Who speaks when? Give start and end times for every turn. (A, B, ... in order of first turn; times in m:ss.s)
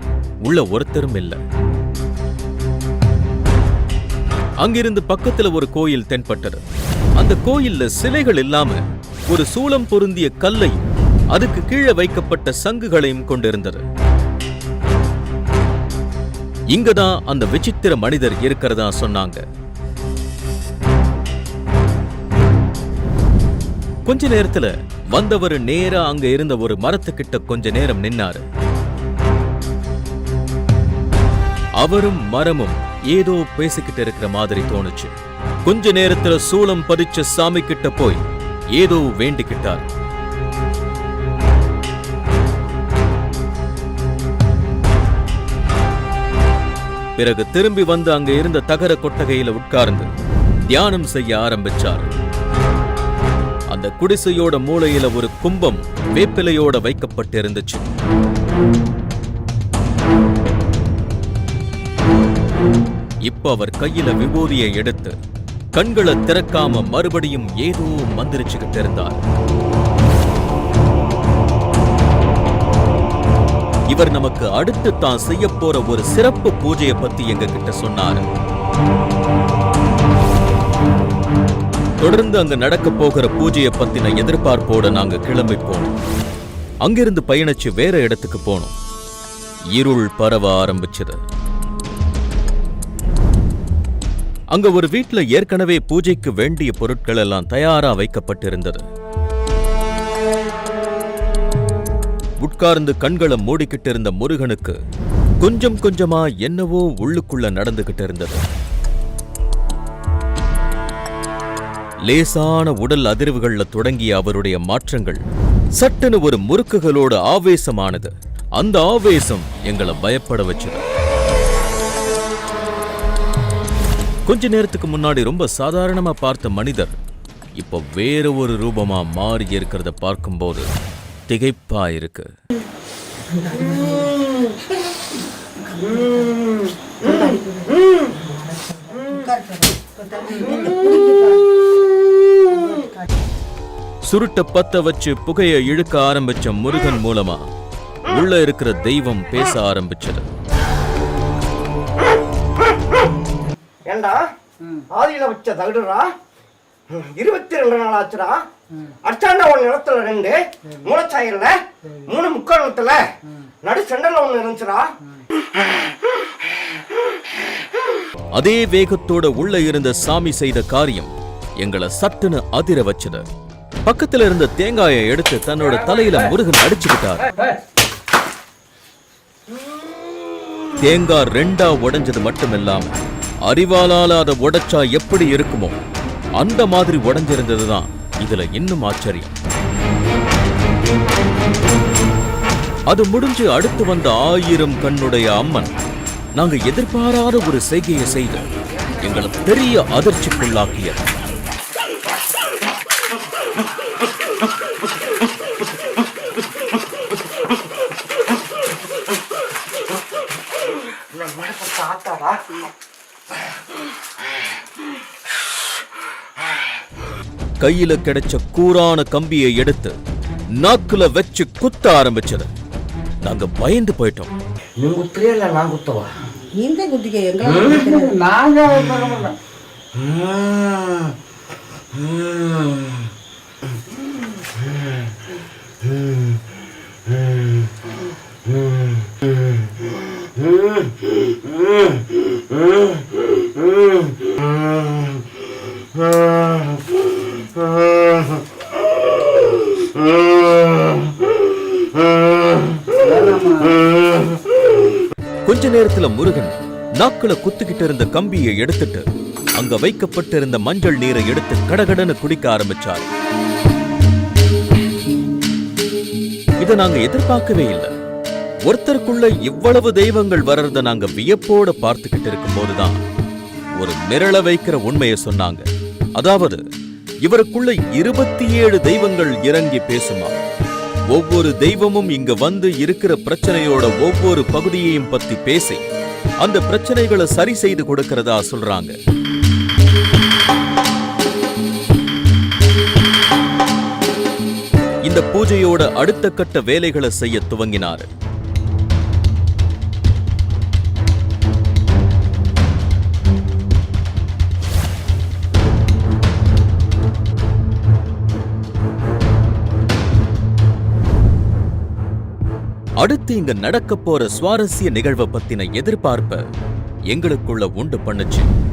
0:00.4-0:01.4 A
0:04.6-0:06.6 A
0:07.2-0:13.8 A
0:16.7-0:19.4 A
0:24.0-0:28.4 A
0:31.8-0:35.1 A
0:35.6-0:39.8 A
0:47.2-0:50.1 A
0:50.7-0:52.1 A
0:53.7-0:57.9 A
1:03.2-1:05.2 A
1:05.7-1:09.2 A
1:13.9-1:18.2 A
1:22.0-1:25.9 A
1:26.8-1:28.7 A
1:29.7-1:31.2 A
1:34.5-1:38.8 A
1:42.4-1:44.8 A
1:45.4-1:48.4 A
1:52.0-1:55.2 A
1:55.7-2:00.8 A
2:04.2-2:06.9 A
2:07.6-2:10.7 A
2:11.3-2:12.3 A
2:13.2-2:14.9 B
2:15.6-2:21.6 B
2:22.4-2:23.1 B
2:24.0-2:27.4 A
2:28.0-2:30.3 A
2:33.8-2:34.3 C
2:34.9-2:36.1 C
2:36.9-2:44.9 C
2:48.3-2:53.3 A
2:53.8-2:57.3 A
3:00.8-3:05.8 A
3:06.4-3:09.3 A
3:12.9-3:15.7 A
3:16.4-3:18.4 A
3:19.0-3:21.0 A
3:31.1-3:32.5 C
3:37.6-3:40.0 A
3:40.6-3:42.5 A
3:43.2-3:44.3 A
3:44.8-3:46.1 C
3:46.5-3:48.2 B
3:47.7-3:49.4 D
3:50.3-3:50.8 C
4:13.0-4:13.8 D
4:15.4-4:23.1 A
4:26.6-4:27.9 A
4:28.6-4:33.0 A
4:33.7-4:36.6 A
4:37.2-4:40.3 A
4:41.1-4:45.8 A
4:46.4-4:48.9 A
4:55.0-4:58.1 A
5:13.0-5:16.4 A
5:17.1-5:18.5 A